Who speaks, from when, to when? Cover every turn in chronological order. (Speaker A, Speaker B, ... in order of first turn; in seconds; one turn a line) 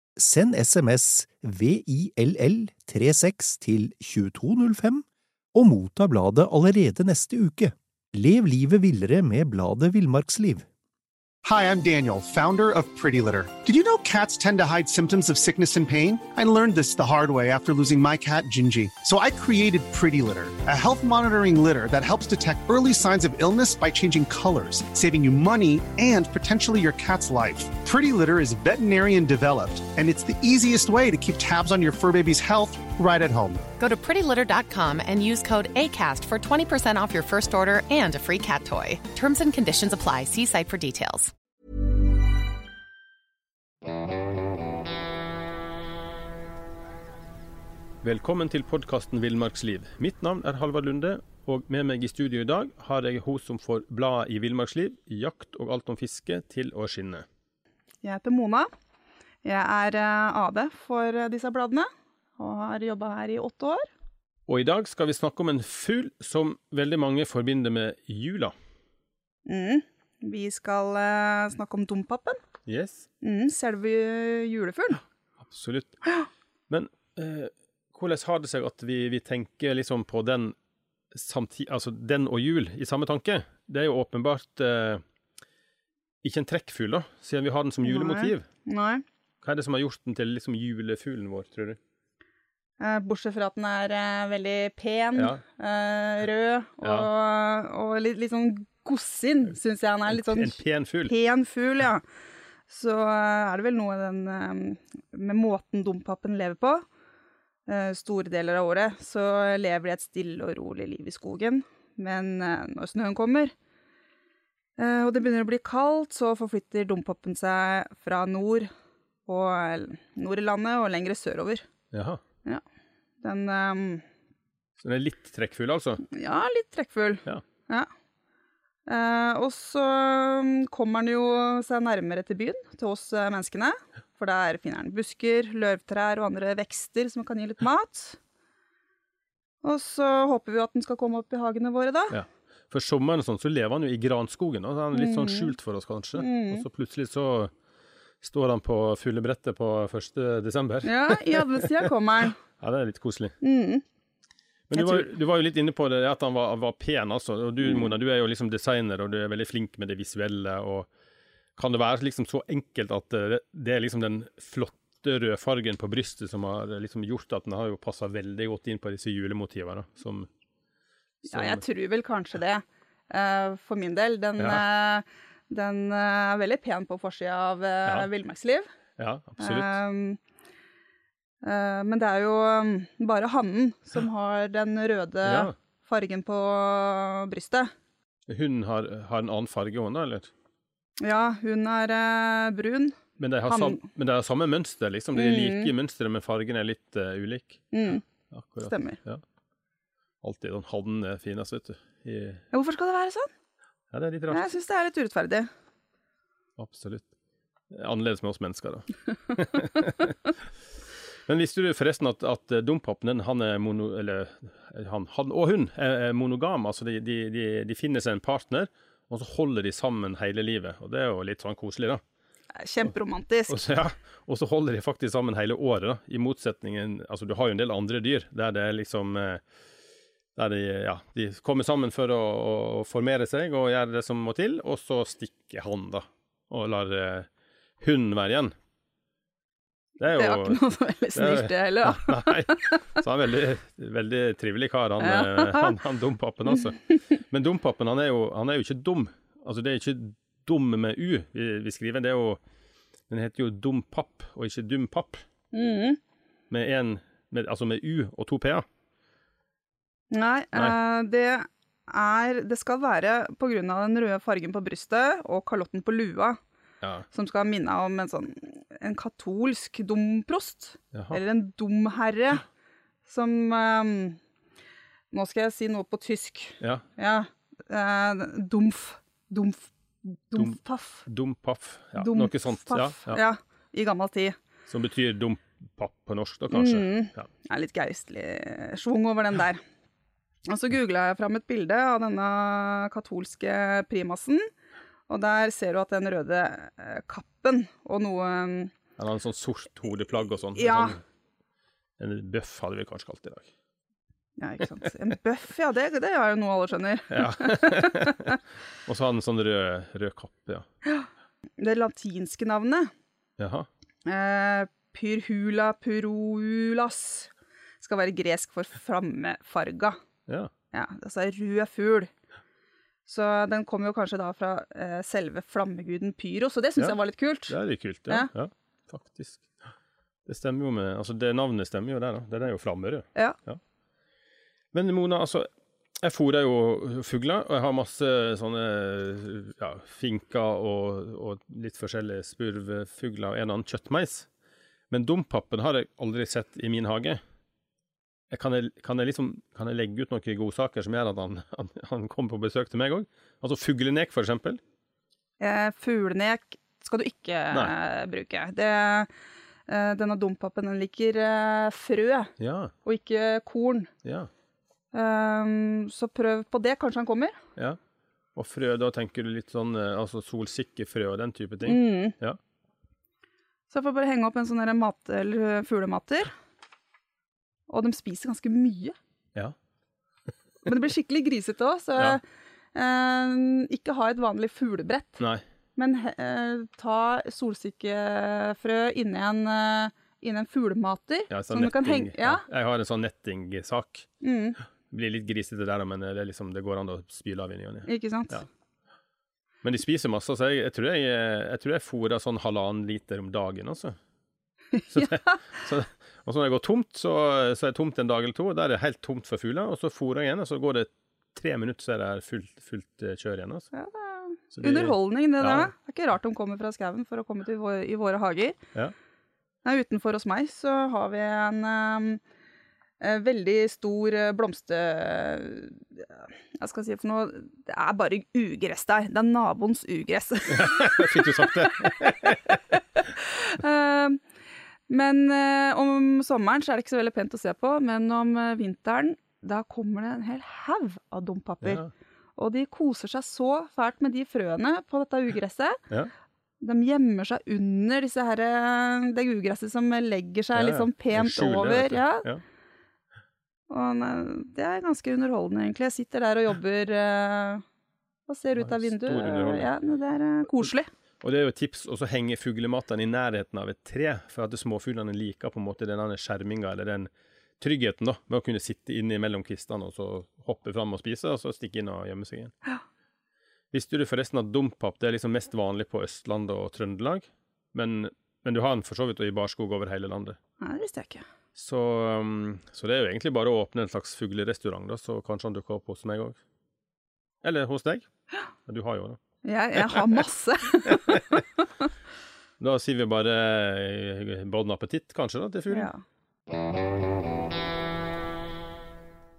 Speaker A: 0.2-10.7
Speaker B: 11.4-33.6
Speaker C: 33.8-41.3
Speaker D: 48.0-57.2
Speaker E: 58.0-58.7
Speaker E: 59.4-63.9
Speaker D: 64.5-68.5
Speaker E: 69.5-72.4
Speaker D: 72.7-73.1
Speaker E: 73.2-75.0
Speaker D: 75.4-76.0
Speaker D: 76.7-80.5
Speaker D: 81.1-85.0
Speaker D: 86.2-88.5
Speaker E: 87.8-89.0
Speaker D: 89.4-91.8
Speaker E: 92.8-102.0
Speaker D: 95.2-95.4
Speaker D: 96.8-97.1
Speaker D: 100.1-101.1
Speaker E: 102.7-106.8
Speaker E: 107.7-113.5
Speaker E: 114.8-118.7
Speaker E: 119.3-121.7
Speaker D: 121.9-122.2
Speaker E: 123.2-124.0
Speaker D: 124.8-126.0
Speaker E: 126.1-127.9
Speaker E: 128.9-138.2
Speaker E: 139.6-142.2
Speaker D: 142.1-147.5
Speaker E: 144.9-145.6
Speaker E: 146.2-146.7
Speaker D: 148.2-151.5
Speaker E: 150.8-152.4
Speaker D: 152.6-153.3
Speaker E: 153.4-153.8
Speaker D: 154.7-160.9
Speaker E: 154.7-155.1
Speaker D: 161.6-170.3
Speaker E: 171.2-178.7
Speaker D: 171.3-171.6
Speaker D: 174.4-174.6
Speaker D: 179.0-179.8
Speaker E: 179.4-180.2
Speaker E: 181.4-187.7
Speaker D: 185.2-185.5
Speaker D: 188.3-190.3
Speaker E: 191.0-193.8
Speaker D: 193.2-197.6
Speaker E: 195.2-195.7
Speaker E: 197.7-198.0
Speaker D: 198.3-199.2
Speaker E: 198.6-199.0
Speaker D: 200.2-202.4
Speaker E: 202.5-203.3
Speaker D: 203.9-204.4
Speaker E: 204.3-205.5
Speaker D: 206.6-207.1
Speaker D: 207.7-210.2
Speaker D: 211.3-222.0
Speaker E: 222.6-223.6
Speaker D: 223.5-229.4
Speaker D: 230.4-237.3
Speaker D: 237.8-238.5
Speaker D: 240.0-240.6
Speaker E: 240.1-242.8
Speaker D: 241.1-252.4
Speaker E: 245.0-245.8
Speaker D: 253.1-255.2
Speaker E: 255.5-256.0
Speaker D: 256.5-258.7
Speaker E: 260.1-266.4
Speaker E: 267.1-272.4
Speaker D: 270.9-271.2
Speaker E: 273.1-274.2
Speaker E: 275.1-281.0
Speaker D: 280.4-283.2
Speaker E: 282.0-284.4
Speaker D: 284.7-287.3
Speaker E: 286.5-289.6
Speaker E: 290.5-294.5
Speaker E: 295.1-298.7
Speaker D: 299.0-301.0
Speaker E: 300.5-301.0
Speaker D: 302.0-303.5
Speaker E: 304.4-308.1
Speaker D: 307.1-308.3
Speaker D: 308.9-310.7
Speaker E: 311.6-312.9
Speaker D: 313.4-313.7
Speaker E: 314.1-320.0
Speaker E: 320.7-322.1
Speaker E: 323.1-328.3
Speaker D: 326.8-329.7
Speaker D: 330.3-333.6
Speaker D: 334.7-335.5
Speaker D: 336.0-344.3
Speaker D: 344.9-347.2
Speaker D: 348.3-354.6
Speaker E: 355.4-359.1
Speaker E: 359.7-362.3
Speaker D: 362.4-362.7
Speaker E: 362.8-363.9
Speaker D: 364.0-364.3
Speaker E: 364.9-367.4
Speaker D: 368.4-372.4
Speaker E: 371.6-372.2
Speaker E: 373.7-376.3
Speaker E: 377.7-379.0
Speaker E: 380.6-382.2
Speaker E: 382.7-385.2
Speaker E: 385.8-392.4
Speaker D: 391.3-394.1
Speaker E: 394.2-394.6
Speaker D: 394.9-398.4
Speaker E: 397.9-398.4
Speaker D: 399.6-404.0
Speaker D: 404.9-413.7
Speaker E: 413.7-418.6
Speaker D: 414.5-415.7
Speaker E: 419.6-422.2
Speaker E: 423.0-431.3
Speaker D: 430.5-432.4
Speaker E: 433.1-434.2
Speaker E: 434.9-441.8
Speaker D: 441.6-441.9
Speaker E: 442.4-445.8
Speaker E: 446.6-452.3
Speaker D: 450.6-452.4
Speaker E: 453.7-457.6
Speaker E: 458.3-460.9
Speaker D: 458.6-459.7
Speaker D: 461.2-467.1
Speaker D: 467.6-472.5
Speaker D: 473.7-480.4
Speaker E: 480.6-481.2
Speaker D: 481.6-486.4
Speaker D: 487.4-488.1
Speaker D: 488.7-489.2
Speaker E: 489.4-491.2
Speaker D: 490.9-491.4
Speaker D: 492.6-495.9
Speaker E: 495.7-496.0